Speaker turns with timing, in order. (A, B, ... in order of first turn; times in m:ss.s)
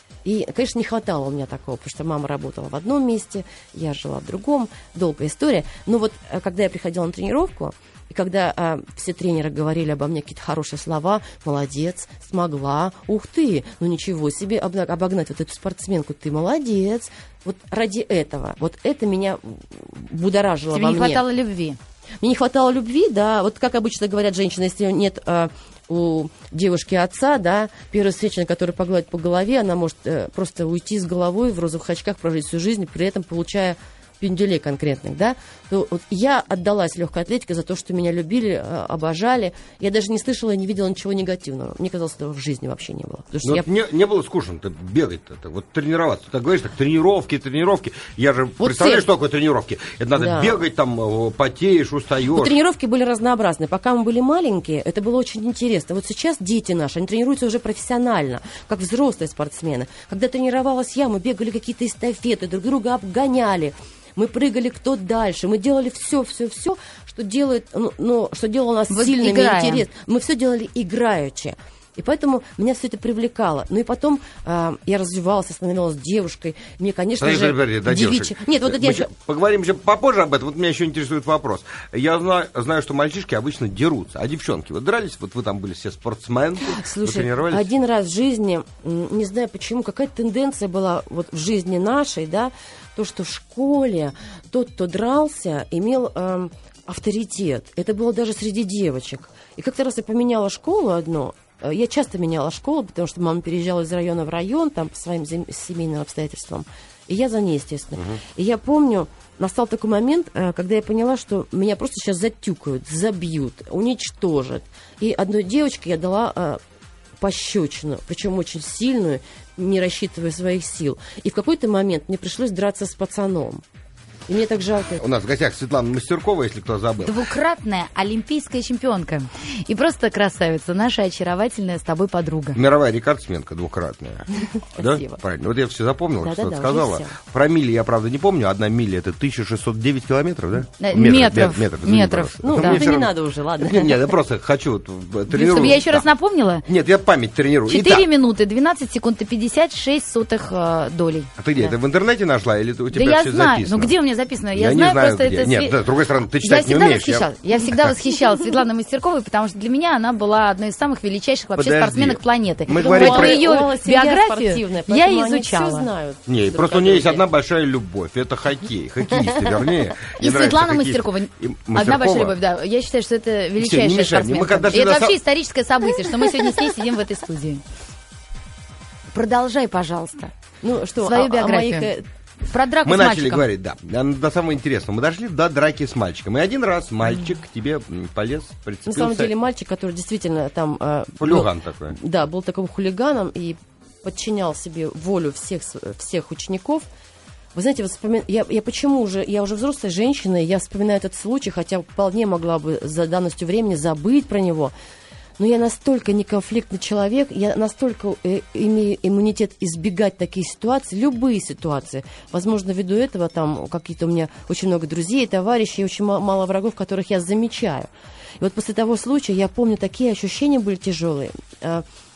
0:00.2-0:21.2 A
0:20.7-0:21.8 B
0:22.2-0:43.6 A
0:43.4-0:52.5 C
0:48.6-0:49.0 A
0:50.2-0:50.6 A
0:52.3-1:19.1 A
1:08.9-1:09.8 B
1:17.2-1:27.7 C
1:26.6-1:56.6 A
1:57.2-2:03.6 A
2:04.3-2:05.0 A
2:05.0-2:07.2 C
2:07.0-2:12.6 B
2:12.6-2:26.0 C
2:14.8-2:15.2 B
2:16.2-2:17.1 A
2:20.8-2:22.8 B
2:22.4-2:24.1 A
2:25.3-2:26.6 B
2:26.6-2:28.0 C
2:27.7-2:31.7 B
2:31.4-2:33.9 C
2:32.9-2:35.7 B
2:34.5-2:37.2 C
2:36.4-2:45.9 B
2:41.6-2:43.4 C
2:42.8-2:47.2 A
2:46.3-2:52.4 C
2:49.1-2:49.4 A
2:50.2-2:57.6 B
2:53.6-2:55.2 C
2:59.1-3:00.3 B
3:00.6-3:02.0 A
3:01.0-3:01.9 B
3:02.4-3:03.4 B
3:02.8-3:09.3 C
3:08.9-3:16.9 A
3:11.2-3:12.0 C
3:17.5-3:24.7 A
3:25.4-3:41.8 A